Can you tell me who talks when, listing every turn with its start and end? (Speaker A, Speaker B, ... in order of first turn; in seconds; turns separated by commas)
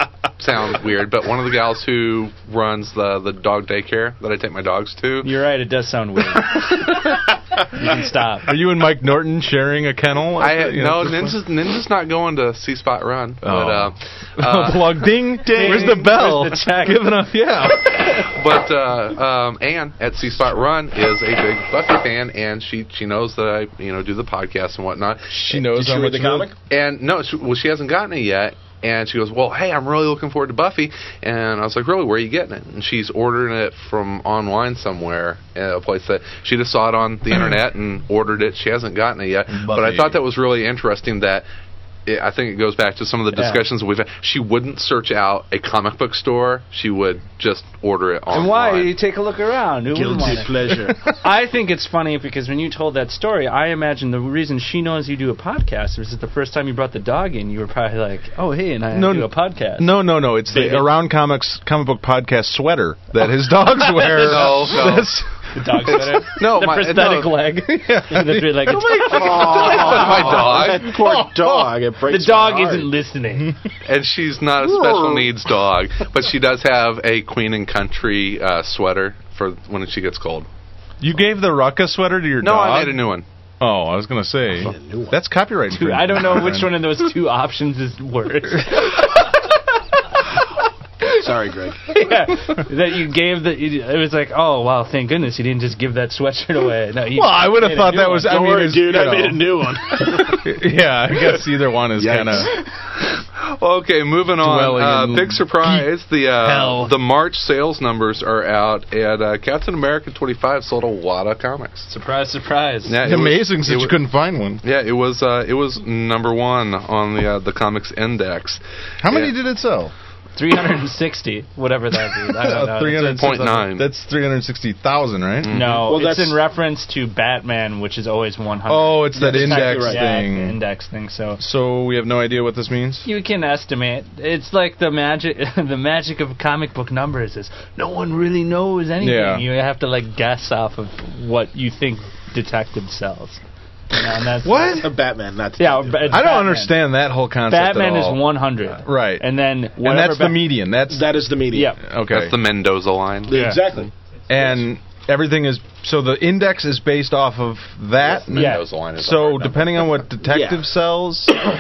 Speaker A: 0.4-5.3, Speaker B: 5.2-7.1, Speaker B: 7.7-8.5, Speaker C: 8.5-11.4, Speaker A: 10.4-15.1, Speaker C: 13.4-18.3, Speaker B: 15.5-17.2, Speaker A: 18.0-25.3, Speaker C: 25.3-26.5, Speaker D: 25.5-26.6, Speaker A: 26.7-41.5, Speaker C: 37.3-37.6, Speaker C: 39.5-40.2, Speaker A: 42.1-48.9, Speaker B: 43.3-43.6, Speaker B: 48.3-59.9, Speaker D: 49.9-51.2, Speaker C: 58.9-66.2, Speaker D: 60.5-60.9, Speaker A: 64.0-65.2, Speaker B: 65.5-70.0, Speaker A: 65.9-67.5, Speaker C: 67.7-71.8, Speaker D: 68.9-73.0, Speaker A: 69.0-71.0, Speaker B: 72.1-73.5, Speaker A: 73.8-80.5, Speaker C: 74.7-75.3, Speaker C: 81.0-83.0, Speaker A: 82.4-83.2, Speaker C: 83.6-86.9, Speaker D: 84.6-85.2, Speaker B: 85.7-89.5, Speaker D: 91.1-91.9, Speaker B: 91.8-98.3, Speaker C: 97.1-102.5, Speaker D: 98.2-100.5, Speaker D: 102.0-102.6, Speaker A: 103.4-111.9, Speaker C: 104.4-105.8, Speaker B: 106.5-106.9, Speaker B: 111.9-113.0, Speaker A: 112.9-114.0, Speaker C: 113.0-114.6, Speaker A: 114.6-119.3, Speaker C: 119.0-119.9, Speaker B: 120.4-123.4, Speaker C: 122.2-125.7, Speaker A: 123.0-123.9, Speaker A: 125.4-125.9, Speaker B: 125.5-131.4, Speaker D: 125.8-126.4, Speaker C: 128.7-130.6, Speaker D: 129.1-130.2, Speaker C: 131.4-133.1, Speaker B: 133.1-144.9, Speaker C: 139.0-139.5, Speaker C: 144.4-144.9, Speaker D: 144.6-146.4, Speaker B: 145.6-146.8, Speaker C: 146.1-151.2, Speaker B: 147.5-150.5, Speaker D: 150.9-151.8, Speaker B: 151.5-151.8, Speaker C: 151.8-152.4, Speaker A: 152.1-153.9, Speaker D: 153.3-153.9, Speaker B: 153.3-153.6, Speaker C: 154.3-161.4, Speaker A: 158.0-160.0, Speaker B: 158.3-158.7, Speaker D: 160.3-160.7